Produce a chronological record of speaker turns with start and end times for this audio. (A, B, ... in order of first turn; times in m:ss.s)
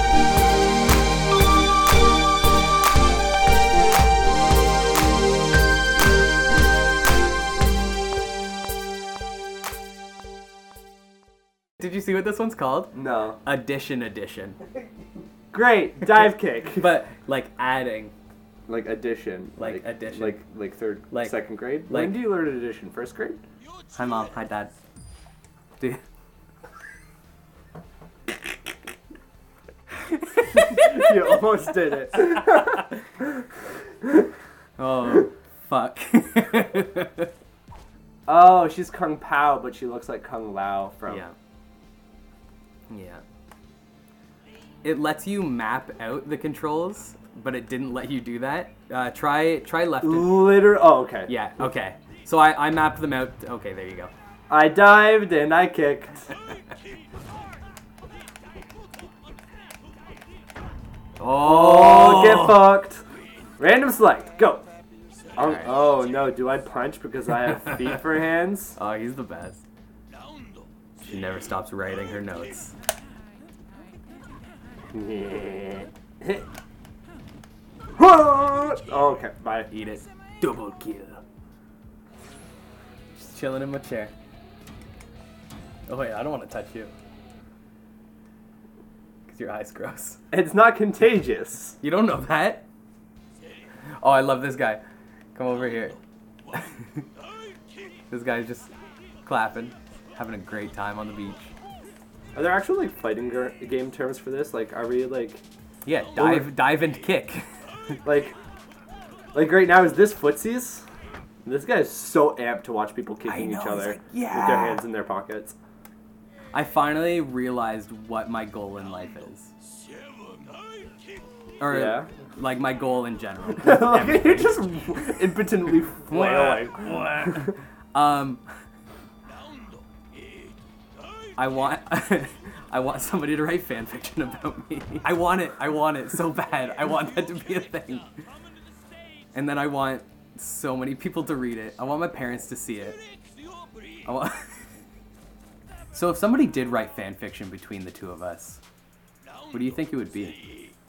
0:11.8-0:14.6 A
0:12.9-0:13.4 B
0:15.5-0:16.9 B
0:16.7-0:18.1 A
0:18.7-0:23.4 B
0:19.6-0:20.4 A
0:21.1-0:22.2 A
0:23.9-0:24.7 A
0:30.5-0:32.9 B
0:34.8-0:37.3 A
0:38.3-0:41.2 B
0:41.1-0:41.3 A
0:42.9-0:43.2 A
0:44.8-0:50.6 A
0:50.0-0:51.3 B
0:51.3-0:54.1 A
0:54.5-0:56.3 B
1:01.2-1:02.7 A
1:01.4-1:03.0 B
1:03.6-1:04.6 B
1:05.4-1:08.8 B
1:05.4-1:05.7 A
1:08.8-1:09.6 A
1:11.0-1:12.7 A
1:14.9-1:16.4 B
1:18.0-1:19.7 B
1:19.7-1:21.2 A
1:23.2-1:24.1 A
1:25.9-1:26.9 A
1:29.3-1:30.2 A
1:30.3-1:31.8 B
1:31.8-1:32.6 A
1:34.0-1:34.8 A
1:35.3-1:36.0 A
1:36.5-1:36.9 A
1:38.1-1:38.7 A
1:39.2-1:41.5 A
1:42.3-1:45.4 B
1:45.8-1:47.4 A
1:46.2-1:46.5 B
1:48.0-1:48.4 B
1:49.3-1:50.8 B
1:51.4-1:55.6 B
1:53.2-1:54.8 A
1:56.5-1:59.5 A
2:01.6-2:04.9 A
2:01.7-2:02.1 B
2:03.6-2:07.5 B
2:06.1-2:08.4 A
2:11.4-2:18.1 A
2:19.3-2:23.0 A
2:24.0-2:24.4 A
2:25.9-2:28.6 A
2:29.5-2:30.4 A